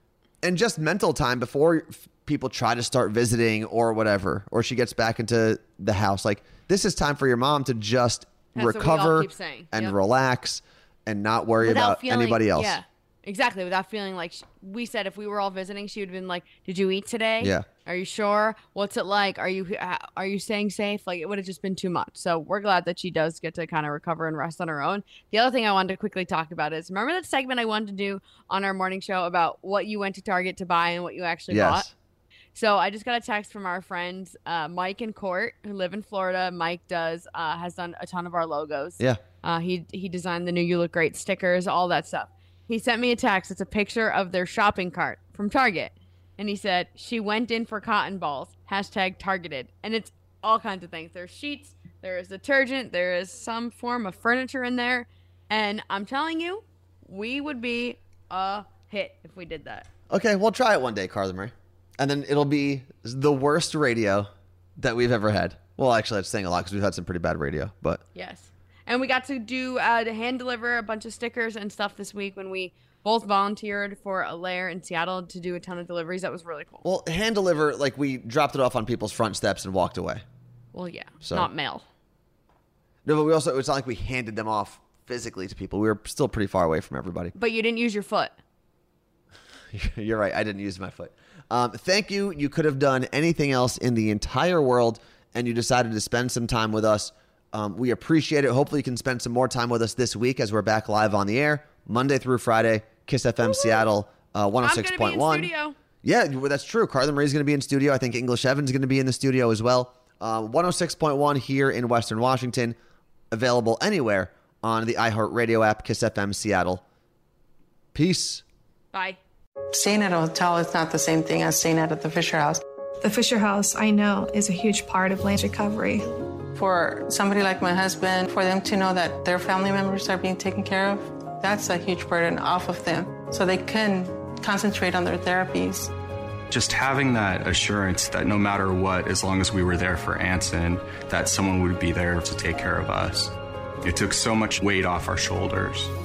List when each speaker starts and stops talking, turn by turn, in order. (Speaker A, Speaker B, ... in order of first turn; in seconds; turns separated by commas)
Speaker A: 0.4-12.8, Speaker B: 8.6-9.9, Speaker B: 11.6-31.9, Speaker A: 17.4-17.7, Speaker A: 31.5-31.9, Speaker B: 32.5-59.9, Speaker A: 60.1-68.0, Speaker B: 68.2-76.8, Speaker A: 76.8-80.2, Speaker B: 80.7-81.8, Speaker A: 81.2-81.5, Speaker A: 83.0-87.3, Speaker B: 87.3-88.3, Speaker A: 89.7-105.5, Speaker B: 103.4-103.8, Speaker B: 104.6-105.8, Speaker A: 106.0-112.8, Speaker A: 113.3-116.8, Speaker A: 117.9-118.4, Speaker B: 118.9-119.2, Speaker C: 119.7-122.6, Speaker D: 123.0-126.1, Speaker C: 126.5-135.9, Speaker E: 136.5-145.9